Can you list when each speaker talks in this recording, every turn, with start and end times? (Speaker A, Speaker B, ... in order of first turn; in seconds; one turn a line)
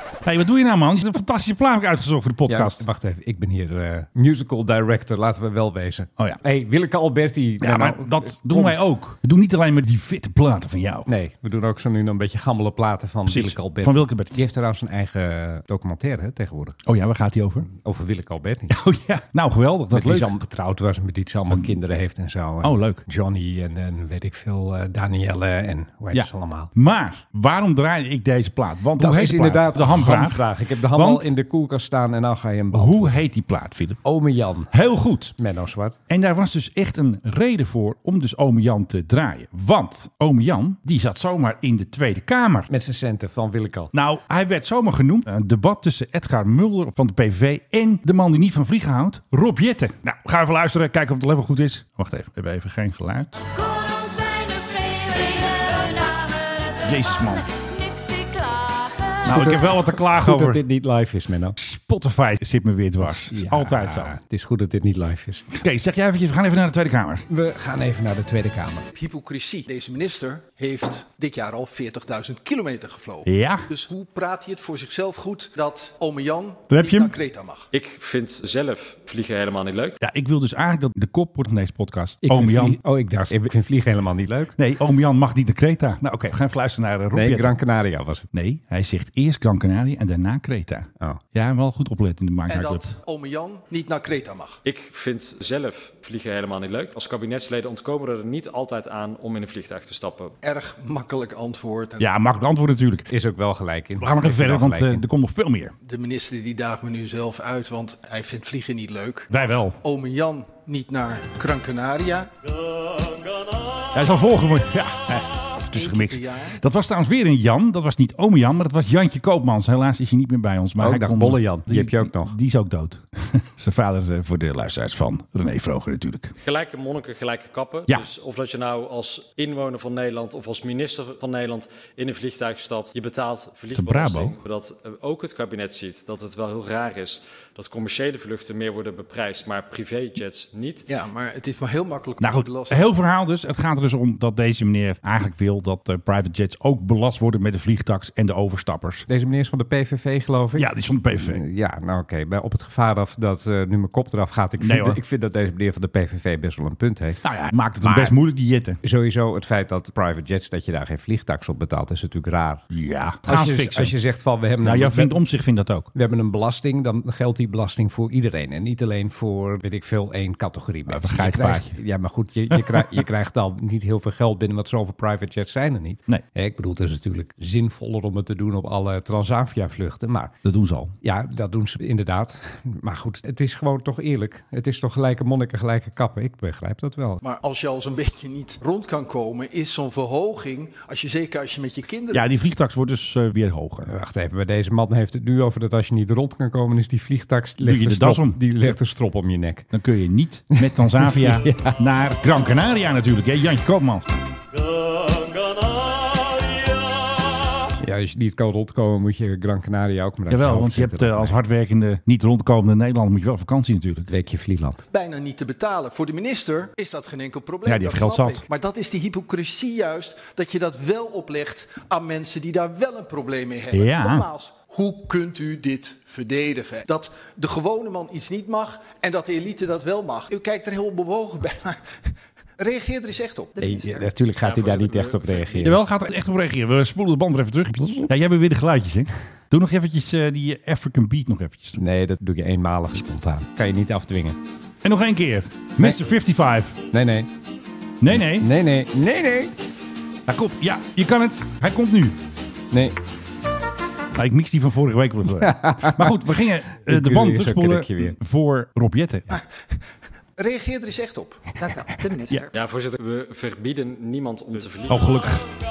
Speaker A: 0.2-2.8
Speaker B: 2.5-8.7
Speaker A: 7.6-11.1
Speaker B: 11.1-16.8
Speaker A: 13.2-14.4
Speaker A: 16.8-17.7
Speaker B: 17.7-18.8
Speaker A: 18.7-20.3
Speaker B: 19.9-26.7
Speaker A: 22.6-23.0
Speaker A: 26.1-31.3
Speaker B: 29.0-33.2
Speaker A: 32.7-34.0
Speaker B: 34.0-34.7
Speaker A: 34.7-35.3
Speaker B: 35.4-36.0
Speaker A: 36.1-42.7
Speaker B: 42.7-43.9
Speaker A: 43.9-53.4
Speaker C: 53.4-59.4
Speaker A: 56.8-57.4
Speaker A: 59.2-60.6
Speaker B: 59.2-61.6
Speaker A: 61.6-64.1
Speaker B: 63.0-65.5
Speaker A: 65.5-67.2
Speaker B: 67.3-68.9
Speaker D: 68.9-77.7
Speaker A: 73.2-73.7
Speaker A: 76.7-77.2
Speaker E: 77.7-80.0
Speaker A: 80.0-82.8
Speaker B: 82.2-84.5
Speaker A: 84.6-87.5
Speaker B: 87.1-88.2
Speaker A: 88.3-92.9
Speaker D: 92.5-94.6
Speaker E: 94.6-100.3
Speaker D: 100.4-102.1
Speaker A: 102.0-103.1
Speaker B: 103.1-105.0
Speaker A: 104.0-105.7
Speaker D: 105.8-112.3
Speaker A: 109.3-109.8
Speaker A: 113.9-126.3
Speaker D: 115.7-116.6
Speaker B: 120.8-122.3
Speaker E: 126.4-140.8
Speaker A: 133.7-134.3
Speaker D: 140.9-142.8
Speaker A: 142.2-149.1
Speaker B: 149.1-157.2
Speaker A: 150.6-151.4
Speaker A: 154.6-155.0
Speaker A: 157.2-158.8
Speaker B: 157.8-158.2
Speaker B: 158.8-162.6
Speaker A: 162.7-163.9
Speaker B: 163.2-165.2
Speaker A: 164.6-165.9
Speaker B: 165.9-180.3
Speaker A: 170.9-171.8
Speaker A: 172.5-173.0
Speaker A: 180.4-180.9
Speaker B: 181.0-187.2
Speaker D: 187.2-192.2
Speaker A: 192.1-194.0
Speaker B: 193.8-199.7
Speaker A: 197.6-198.7
Speaker A: 199.7-204.1
Speaker B: 200.5-201.8
Speaker B: 207.8-211.4
Speaker A: 210.3-214.1
Speaker B: 214.1-214.8
Speaker D: 214.9-231.8
Speaker A: 217.7-218.4
Speaker A: 223.7-224.3
Speaker D: 232.6-233.8
Speaker B: 233.6-235.8
Speaker E: 234.4-235.7
Speaker A: 235.6-241.8
Speaker B: 237.8-238.1
Speaker B: 241.8-244.4
Speaker A: 244.8-246.8
Speaker B: 246.9-247.3
Speaker A: 248.0-248.5
Speaker B: 248.1-249.6
Speaker A: 250.3-252.2
Speaker B: 252.7-253.0
Speaker A: 254.1-259.3
Speaker B: 255.3-256.2
Speaker B: 256.7-258.1
Speaker D: 260.4-261.8
Speaker B: 261.7-262.4
Speaker E: 262.5-265.1
Speaker A: 264.9-265.4